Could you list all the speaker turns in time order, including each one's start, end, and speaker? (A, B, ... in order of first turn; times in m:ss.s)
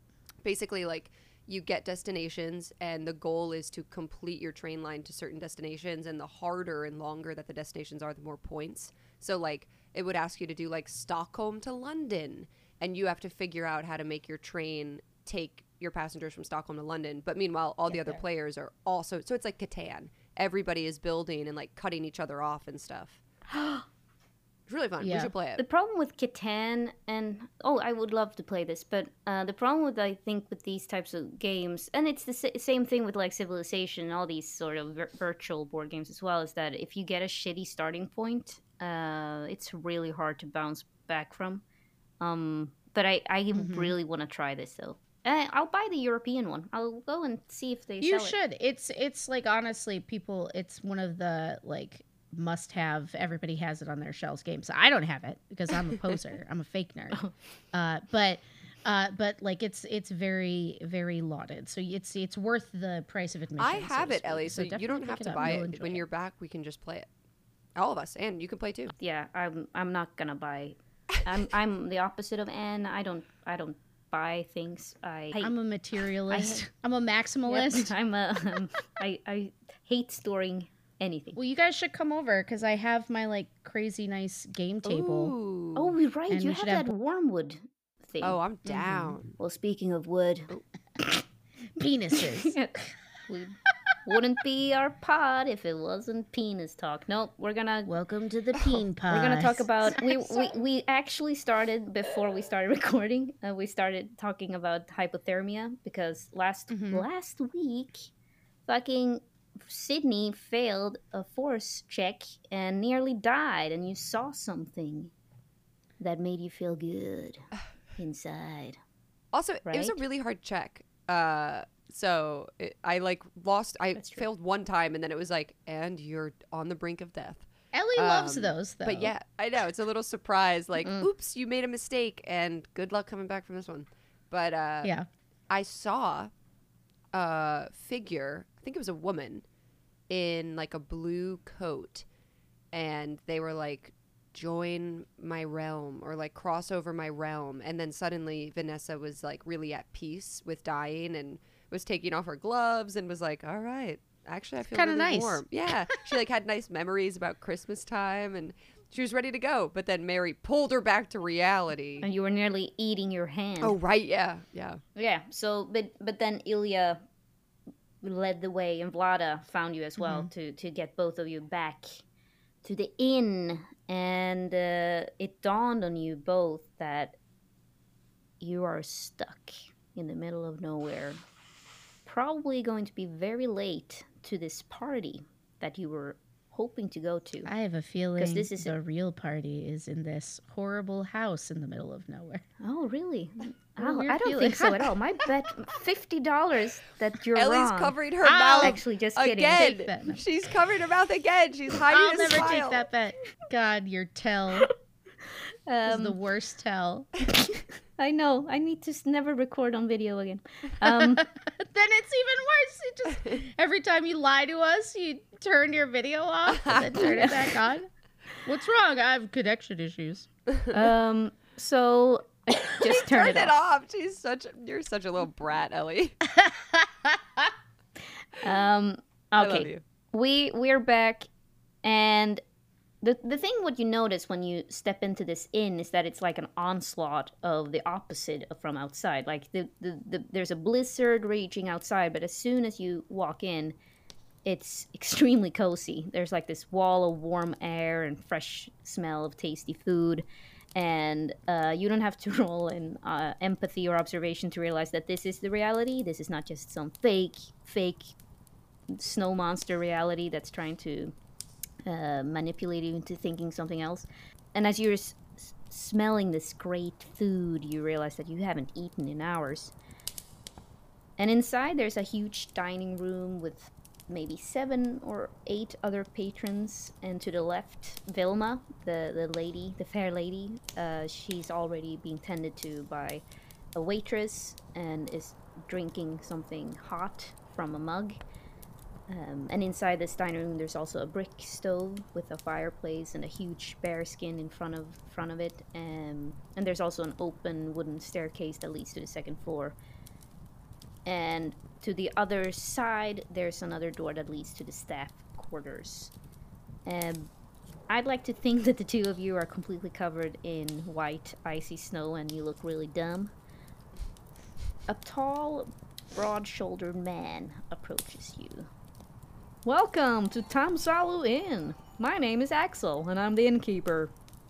0:00.4-0:23.2 A
0:17.9-0:18.2 B
0:23.5-0:23.8 C
0:24.7-0:25.6 A
0:25.0-0:25.3 B
0:25.6-0:41.6 C
0:42.2-0:48.4 C
0:43.5-0:43.9 B
0:48.0-1:06.1 B
1:03.6-1:07.1 A
1:07.8-1:08.9 A
1:09.0-1:15.5 C
1:15.4-1:17.9 B
1:16.3-1:16.6 C
1:17.5-1:21.4 C
1:21.4-1:25.3 B
1:24.8-1:26.0 A
1:25.8-1:28.4 C
1:26.3-1:26.9 B
1:28.2-1:29.4 A
1:28.6-1:29.2 B
1:29.4-1:31.2 C
1:31.8-1:32.6 B
1:32.2-1:37.9 C
1:37.8-1:40.5 B
1:39.1-1:48.1 C
1:46.7-1:47.1 B
1:48.6-1:55.1 C
1:56.0-1:58.8 C
1:59.3-2:14.9 A
1:59.6-2:00.0 C
2:04.0-2:04.2 C
2:07.7-2:09.1 B
2:10.8-2:11.1 C
2:15.5-2:16.3 A
2:17.1-2:19.4 A
2:20.1-2:22.0 A
2:22.7-2:42.1 A
2:34.7-2:36.1 B
2:42.0-2:43.8 C
2:43.6-2:44.8 A
2:44.9-2:47.0 C
2:48.0-2:52.0 C
2:50.0-2:50.3 B
2:52.6-2:57.2 C
2:58.4-3:01.2 C
3:02.0-3:07.5 C
3:07.4-3:12.4 B
3:08.2-3:08.7 C
3:12.6-3:17.9 C
3:13.8-3:14.9 B
3:17.4-3:22.9 A
3:18.2-3:18.8 B
3:18.6-3:19.7 C
3:19.6-3:20.2 B
3:21.9-3:24.7 B
3:25.2-3:26.2 C
3:25.9-3:27.1 B
3:27.5-3:31.2 C
3:30.8-3:37.9 B
3:36.6-3:36.9 A
3:38.4-3:40.3 B
3:40.7-3:43.5 C
3:42.7-3:46.2 A
3:46.3-3:47.5 B
3:48.4-3:51.3 C
3:49.4-3:49.8 A
3:51.8-3:52.4 C
3:53.0-4:03.8 C
4:04.4-4:18.1 C
4:18.9-4:21.1 C
4:21.8-4:29.7 C
4:31.2-4:43.2 C
4:43.8-4:48.2 C
4:49.1-4:59.8 C
5:01.0-5:06.1 C
5:06.9-5:07.3 C
5:07.9-5:13.3 C
5:14.9-5:18.7 C
5:19.6-5:24.1 C